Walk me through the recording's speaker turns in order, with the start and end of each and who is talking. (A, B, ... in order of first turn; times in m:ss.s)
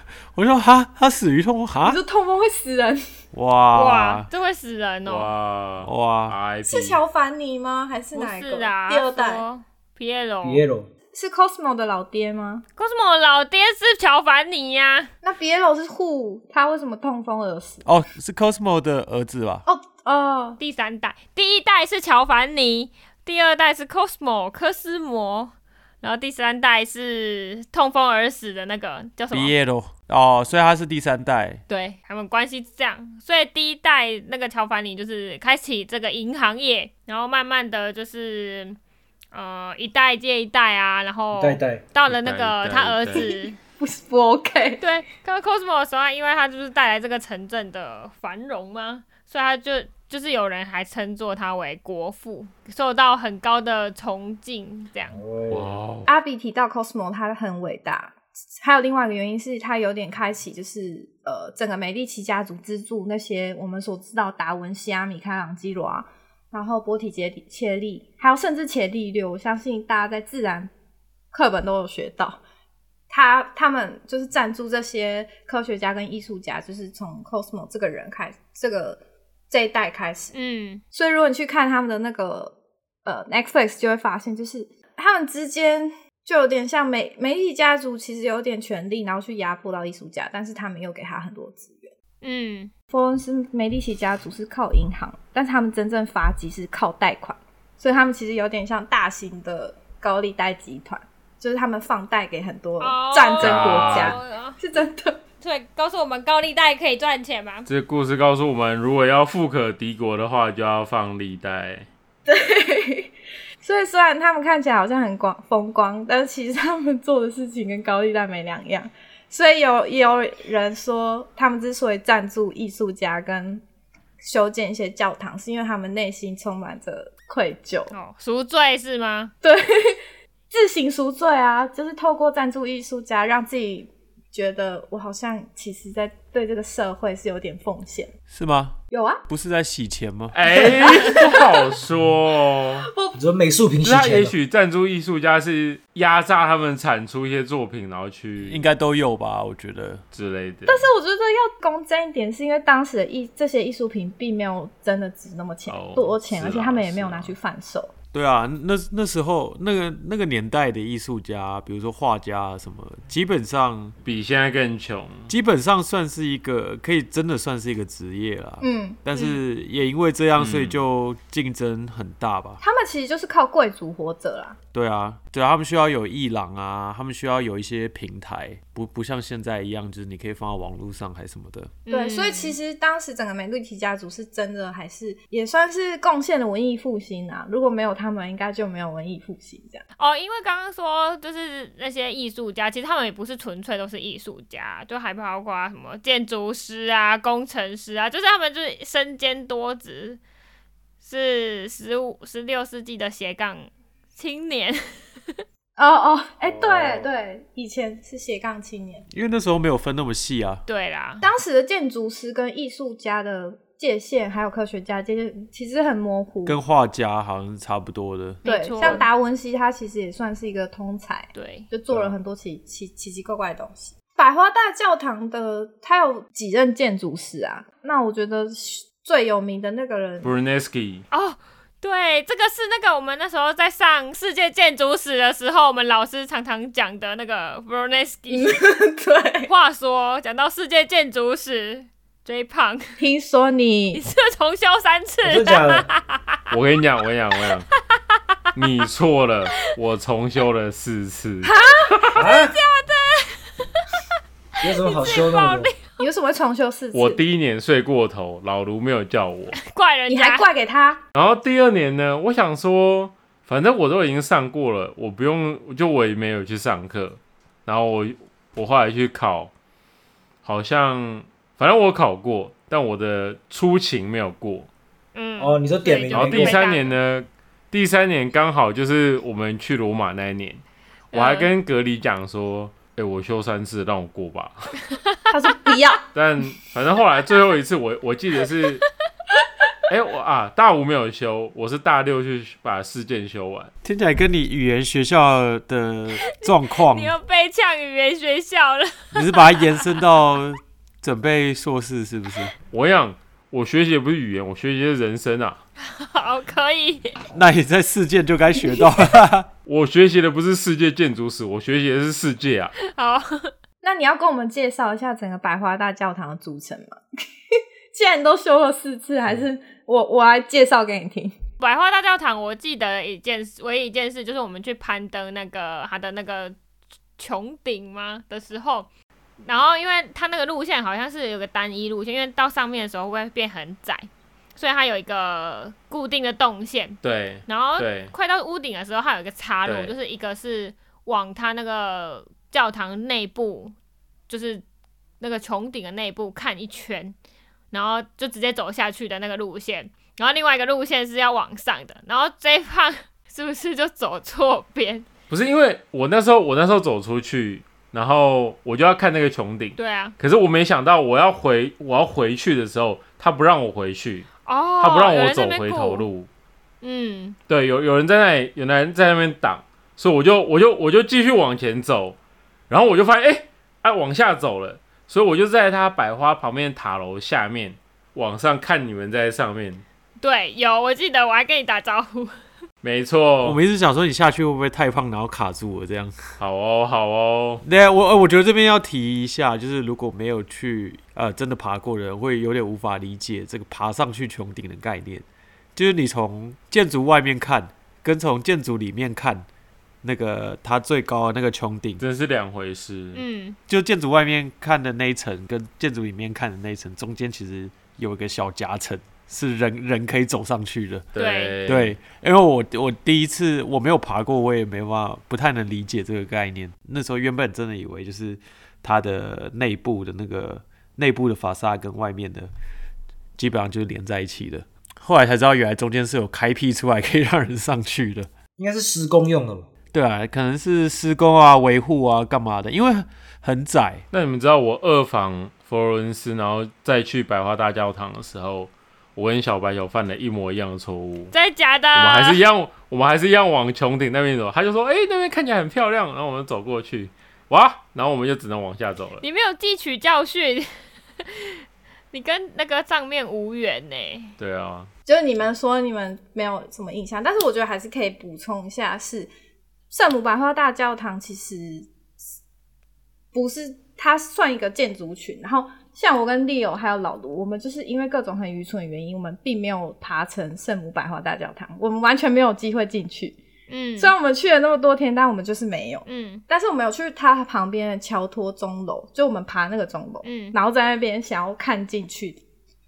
0:00.3-0:02.0 A
0:01.8-0:03.0 B
0:03.3-0:04.3 A
0:03.7-0:05.3 C
0:05.0-0:07.0 D
0:05.8-0:06.4 A
0:06.6-0:09.4 B
0:08.1-0:10.6 C
0:10.4-0:10.9 E
0:11.1-0:12.6 B
0:12.8-0:15.1 C
0:15.2-0:17.8 B
0:17.8-0:19.6 A
0:19.7-0:20.6 B
0:20.6-0:29.6 C
0:29.3-0:31.6 A
0:31.7-0:38.8 C
0:39.3-0:43.6 C
0:41.3-0:41.8 E
0:42.1-0:43.2 D
0:43.2-0:44.8 B
0:44.8-0:55.2 C
0:55.1-0:55.7 E
0:55.5-0:56.1 D
0:56.1-1:10.7 B
1:11.3-1:12.4 B
1:13.1-1:20.3 B
1:20.3-1:20.8 C
1:20.9-1:22.5 B
1:23.0-1:31.9 B
1:32.2-1:32.7 C
1:32.9-1:45.2 B
1:42.8-1:44.6 C
1:43.4-1:44.2 D
1:45.4-1:47.7 C
1:47.7-1:51.9 D
1:52.3-2:03.6 B
2:04.2-2:07.9 B
2:07.9-2:09.3 C
2:09.4-2:10.0 B
2:10.5-2:18.1 B
2:18.3-2:18.8 A
2:18.9-2:19.2 B
2:19.3-2:20.4 A
2:20.3-2:22.9 D
2:20.6-2:21.6 B
2:22.8-2:23.2 B
2:23.2-2:24.3 E
2:23.8-2:28.6 D
2:28.4-2:30.0 A
2:30.1-2:30.9 D
2:30.7-2:37.9 B
2:35.7-2:37.3 D
2:38.1-2:44.0 A
2:44.0-2:45.3 D
2:45.3-2:52.6 A
2:48.6-2:49.0 B
2:50.4-2:50.8 D
2:52.6-2:54.6 B
2:54.7-3:01.8 A
3:01.9-3:02.6 C
3:01.9-3:09.8 B
3:10.0-3:20.2 C
3:21.0-3:25.4 C
3:25.8-3:29.1 B
3:26.6-3:27.0 A
3:29.1-3:30.6 A
3:30.7-3:31.3 C
3:31.2-3:36.6 B
3:36.5-3:39.0 A
3:38.4-3:39.1 C
3:38.4-3:50.3 B
3:41.4-3:41.7 C
3:50.2-3:51.0 D
3:51.1-3:58.6 C
3:58.3-3:59.5 B
3:59.5-4:03.0 C
4:03.0-4:04.0 B
4:04.0-4:06.4 C
4:05.2-4:05.9 E
4:06.5-4:07.7 D
4:07.7-4:08.4 C
4:08.6-4:12.3 D
4:11.4-4:12.0 B
4:11.6-4:13.9 C
4:12.1-4:12.6 E
4:14.6-4:15.8 E
4:14.6-4:16.0 C
4:16.0-4:17.2 B
4:16.9-4:19.6 D
4:19.6-4:20.5 C
4:20.1-4:21.0 B
4:21.2-4:29.5 D
4:30.4-4:34.7 D
4:35.2-4:37.0 C
4:35.4-4:36.6 E
4:36.1-4:44.8 D
4:41.1-4:41.5 C
4:44.9-4:45.2 C
4:45.3-4:46.1 B
4:46.1-4:48.8 D
4:49.9-4:53.7 D
4:53.8-4:57.2 A
4:56.4-4:59.9 C
4:59.1-5:02.5 A
5:02.7-5:05.6 D
5:05.8-5:07.2 C
5:07.3-5:09.5 A
5:09.7-5:12.8 D
5:12.8-5:13.5 C
5:13.8-5:17.0 B
5:17.5-5:21.4 B
5:21.6-5:26.6 C
5:27.2-5:28.9 C
5:29.4-5:43.8 C
5:37.0-5:38.1 D
5:39.6-5:39.9 D
5:44.3-5:44.6 C
5:45.2-5:47.2 C
5:47.7-5:55.1 C
5:55.3-6:06.3 D
5:59.8-6:00.2 C
6:04.4-6:06.1 C
6:06.8-6:07.4 C
6:07.5-6:12.2 D
6:12.7-6:19.8 D
6:20.2-6:22.4 C
6:22.8-6:23.6 D
6:23.4-6:26.2 A
6:26.4-6:27.6 D
6:27.6-6:39.5 A
6:40.0-6:42.0 A
6:42.0-6:43.2 D
6:43.1-6:43.6 C
6:43.7-6:51.1 A
6:51.1-6:52.0 D
6:51.2-6:51.6 C
6:51.7-7:02.5 A
7:03.4-7:08.3 A
7:08.6-7:09.7 E
7:09.9-7:14.0 A
7:14.1-7:21.3 D
7:21.3-7:22.4 C
7:22.0-7:29.2 D
7:29.2-7:34.3 C
7:34.4-7:34.9 D
7:35.1-7:39.3 B
7:39.9-7:41.9 B
7:43.3-7:53.4 B
7:53.7-7:54.1 C
7:54.0-8:02.4 B
7:56.1-7:56.4 C
8:00.2-8:00.6 C